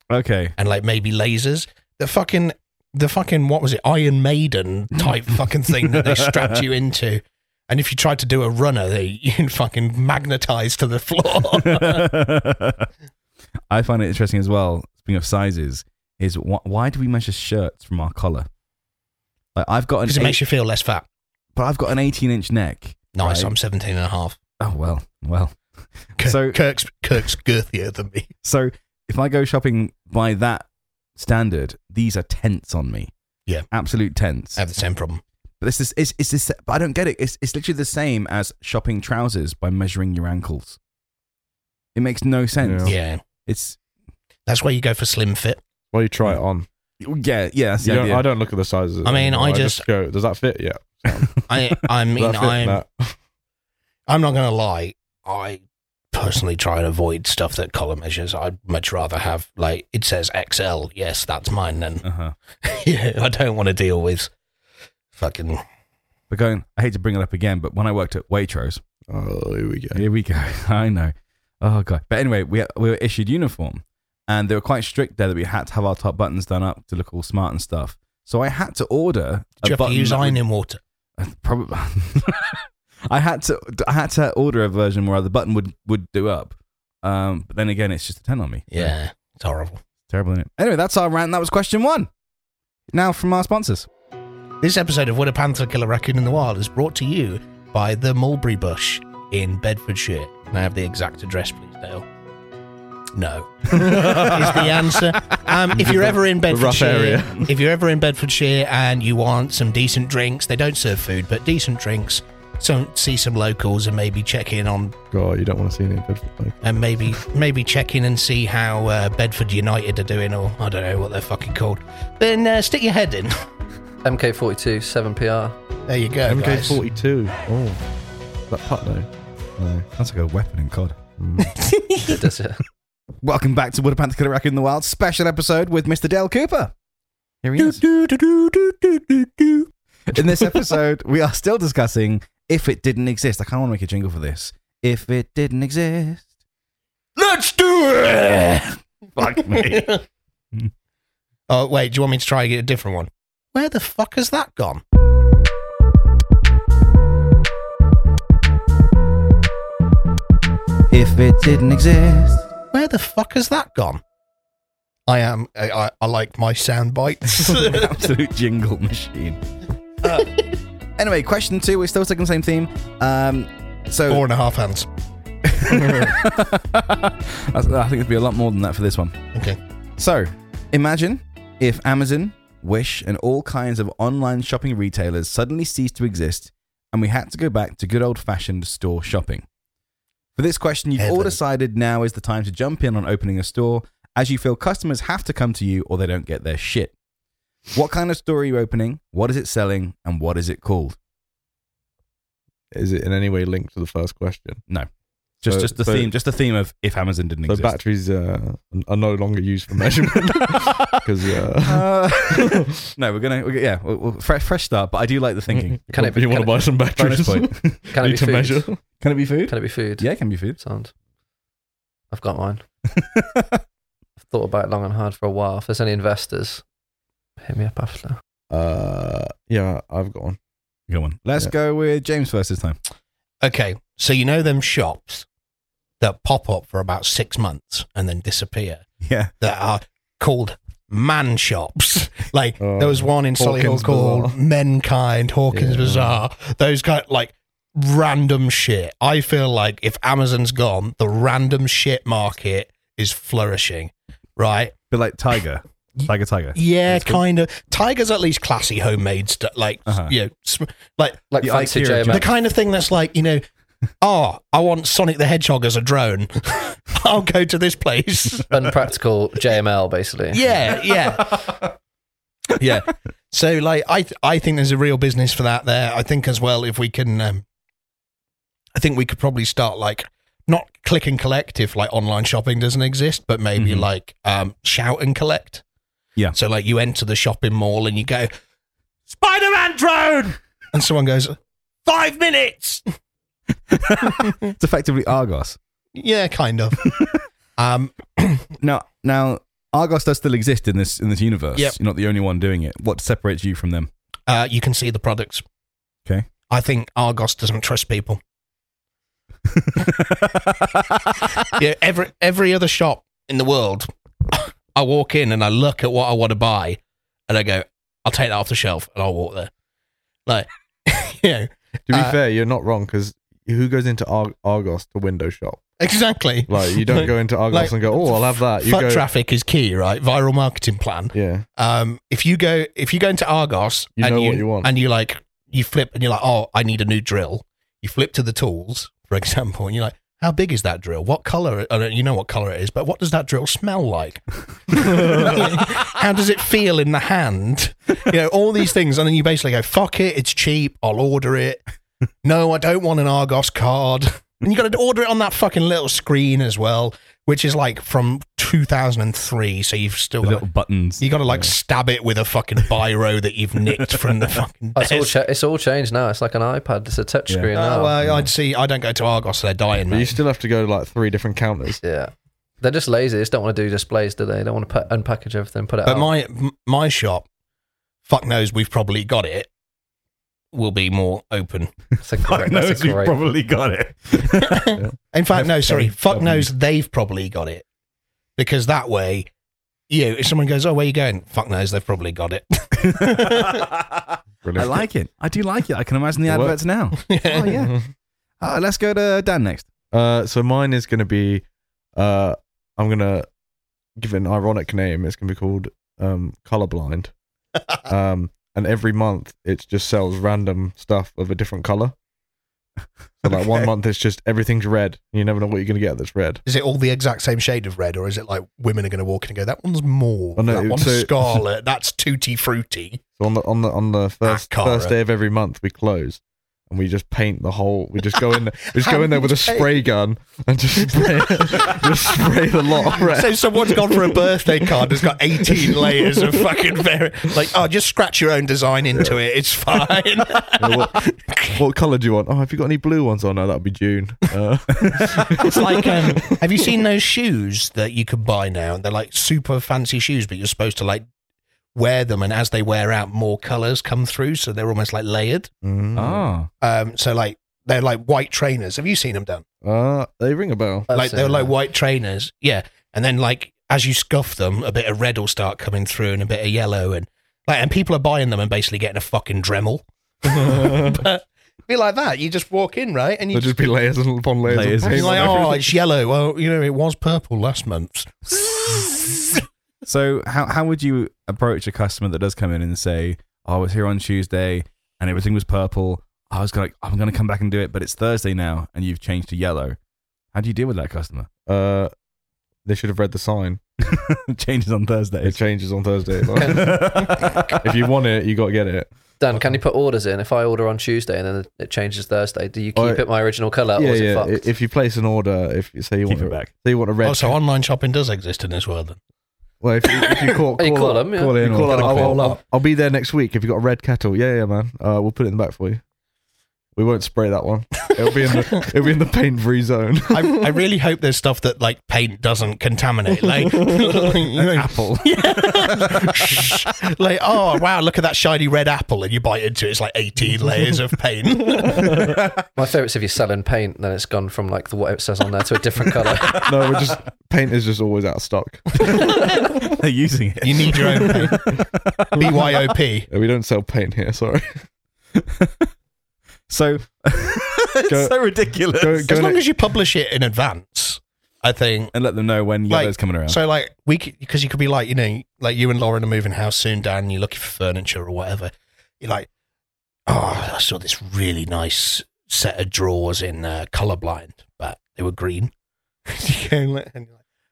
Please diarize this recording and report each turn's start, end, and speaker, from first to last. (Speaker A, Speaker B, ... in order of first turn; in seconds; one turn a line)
Speaker A: 0.1-0.5
Speaker B: 0.6-12.1
Speaker A: 5.9-6.6
Speaker A: 11.6-12.9
Speaker A: 13.7-18.5
Speaker A: 19.5-20.4
Speaker B: 20.1-21.0
Speaker A: 21.6-23.5
Speaker B: 23.1-24.4
Speaker A: 24.6-26.6
Speaker B: 26.2-28.3
Speaker A: 28.4-33.1
Speaker A: 33.7-34.6
Speaker B: 34.5-35.2
Speaker A: 35.6-40.8
Speaker A: 41.9-43.8
Speaker C: 42.6-42.9
Speaker B: 42.8-43.2
Speaker B: 44.5-45.6
Speaker C: 45.9-46.6
Speaker A: 47.0-48.2
Speaker C: 47.8-51.4
Speaker B: 49.0-49.9
Speaker B: 51.5-52.8
Speaker C: 52.1-53.1
Speaker B: 54.1-55.6
Speaker B: 56.1-62.0
Speaker A: 62.0-62.3
Speaker B: 62.6-64.3
Speaker B: 65.1-65.6
Speaker A: 66.3-68.8
Speaker C: 69.1-70.0
Speaker A: 69.9-80.4
Speaker B: 79.6-80.8
Speaker A: 81.2-88.9
Speaker B: 88.7-89.8
Speaker A: 90.1-92.1
Speaker A: 92.9-93.9
Speaker B: 94.6-102.0
Speaker B: 103.1-115.0
Speaker C: 103.7-104.3
Speaker A: 103.8-104.7
Speaker C: 105.7-107.5
Speaker C: 115.1-116.6
Speaker B: 116.6-123.4
Speaker D: 124.0-125.5
Speaker B: 125.9-126.8
Speaker C: 126.2-127.8
Speaker C: 128.5-129.9
Speaker A: 130.0-130.9
Speaker C: 131.2-131.6
Speaker B: 131.5-132.2
Speaker D: 132.0-132.6
Speaker A: 133.2-136.7
Speaker A: 137.4-146.3
Speaker B: 137.6-138.1
Speaker B: 147.2-150.0
Speaker A: 149.2-150.0
Speaker B: 151.5-154.8
Speaker A: 160.9-162.5
Speaker B: 162.7-164.0
Speaker B: 165.1-167.9
Speaker A: 167.4-169.4
Speaker B: 170.0-170.4
Speaker A: 171.0-174.2
Speaker B: 174.1-174.9
Speaker A: 175.4-179.2
Speaker A: 180.0-189.4
Speaker A: 190.3-196.9
Speaker B: 191.0-191.4
Speaker A: 197.7-201.0
Speaker C: 202.7-204.6
Speaker A: 205.4-207.8
Speaker C: 205.4-206.1
Speaker C: 207.5-212.7
Speaker A: 210.5-215.8
Speaker C: 215.5-218.8
Speaker D: 215.9-216.7
Speaker A: 216.9-217.8
Speaker D: 217.9-218.7
Speaker A: 219.0-220.6
Speaker D: 219.5-220.9
Speaker D: 222.1-222.6
Speaker A: 222.9-223.6
Speaker D: 224.2-226.6
Speaker D: 227.4-228.2
Speaker C: 228.5-230.4
Speaker A: 230.9-232.8
Speaker B: 233.4-235.2
Speaker B: 236.0-238.8
Speaker A: 239.0-239.3
Speaker B: 239.4-254.7
Speaker C: 242.6-244.3
Speaker C: 245.5-246.2
Speaker A: 254.9-257.2
Speaker B: 256.0-261.2
Speaker A: 259.9-260.1
Speaker D: 261.3-262.3
Speaker A: 261.4-262.3
Speaker B: 262.1-263.4
Speaker B: 264.0-268.5
Speaker D: 268.5-270.7
Speaker B: 270.3-271.6
Speaker B: 272.5-277.4
Speaker B: 278.7-285.6
Speaker A: 283.6-283.9
Speaker B: 286.3-288.3
Speaker B: 289.1-292.8
Speaker A: 293.7-295.6
Speaker B: 294.1-294.5
Speaker B: 295.9-296.9
Speaker A: 296.9-297.2
Speaker B: 297.6-298.5
Speaker A: 298.6-303.9
Speaker B: 304.3-305.4
Speaker B: 306.5-308.2
Speaker A: 309.4-311.6
Speaker B: 311.4-319.5
Speaker B: 320.3-322.1
Speaker C: 321.9-325.6
Speaker B: 325.8-351.6
Speaker C: 326.5-329.1
Speaker C: 331.1-331.4
Speaker C: 334.0-334.7
Speaker A: 345.0-345.8
Speaker B: 352.2-360.4
Speaker A: 360.2-361.0
Speaker B: 361.0-365.1
Speaker D: 364.8-367.9
Speaker B: 367.5-370.2
Speaker C: 369.9-371.8
Speaker D: 371.8-376.1
Speaker B: 375.9-377.2
Speaker B: 378.1-379.5
Speaker B: 380.5-381.7
Speaker D: 382.0-383.1
Speaker A: 382.2-384.8
Speaker B: 384.3-387.6
Speaker A: 385.3-386.5
Speaker B: 388.4-389.3
Speaker B: 389.9-393.6
Speaker A: 392.8-397.8
Speaker C: 394.4-394.8
Speaker C: 396.2-396.6
Speaker B: 396.9-397.6
Speaker C: 397.4-397.9
Speaker A: 398.4-399.6
Speaker C: 399.9-403.3
Speaker C: 404.0-407.1
Speaker C: 407.9-411.9
Speaker C: 413.2-416.4
Speaker B: 416.4-423.0
Speaker C: 420.4-421.4
Speaker C: 423.2-436.6
Speaker B: 424.2-424.9
Speaker B: 428.8-429.8
Speaker B: 430.9-432.1
Speaker B: 432.7-441.6
Speaker C: 440.6-446.4
Speaker A: 444.8-445.2
Speaker B: 445.2-451.0
Speaker B: 451.7-455.5
Speaker C: 455.6-456.3
Speaker A: 455.9-456.5
Speaker B: 456.6-459.4
Speaker C: 459.6-460.9
Speaker D: 460.9-461.5
Speaker B: 460.9-473.6
Speaker C: 470.2-471.0
Speaker C: 473.3-475.6
Speaker A: 474.4-475.5
Speaker B: 474.9-479.4
Speaker A: 479.8-489.8
Speaker A: 490.3-491.3
Speaker C: 491.4-491.9
Speaker C: 492.6-493.6
Speaker A: 493.8-495.4
Speaker C: 495.2-497.0
Speaker A: 496.2-497.7
Speaker D: 496.4-497.2
Speaker C: 497.6-498.9
Speaker D: 499.2-504.4
Speaker C: 502.8-503.1
Speaker C: 503.8-507.3
Speaker A: 506.1-506.5
Speaker B: 507.0-509.0
Speaker C: 509.6-515.8
Speaker B: 509.9-510.4
Speaker D: 510.6-512.3
Speaker A: 511.1-512.4
Speaker B: 511.7-512.2
Speaker C: 516.8-520.6
Speaker B: 518.1-518.5
Speaker B: 520.1-532.1
Speaker A: 524.5-526.6
Speaker A: 531.9-532.4
Speaker D: 532.5-536.5
Speaker C: 536.3-539.7
Speaker A: 538.8-542.6
Speaker B: 540.4-541.6
Speaker B: 542.1-543.1
Speaker C: 543.1-544.6
Speaker A: 545.2-545.7
Speaker A: 546.5-549.1
Speaker C: 547.9-548.1
Speaker C: 548.8-549.4
Speaker B: 549.0-551.9
Speaker A: 551.9-553.4
Speaker B: 552.7-559.3
Speaker B: 560.1-565.5
Speaker B: 566.1-567.1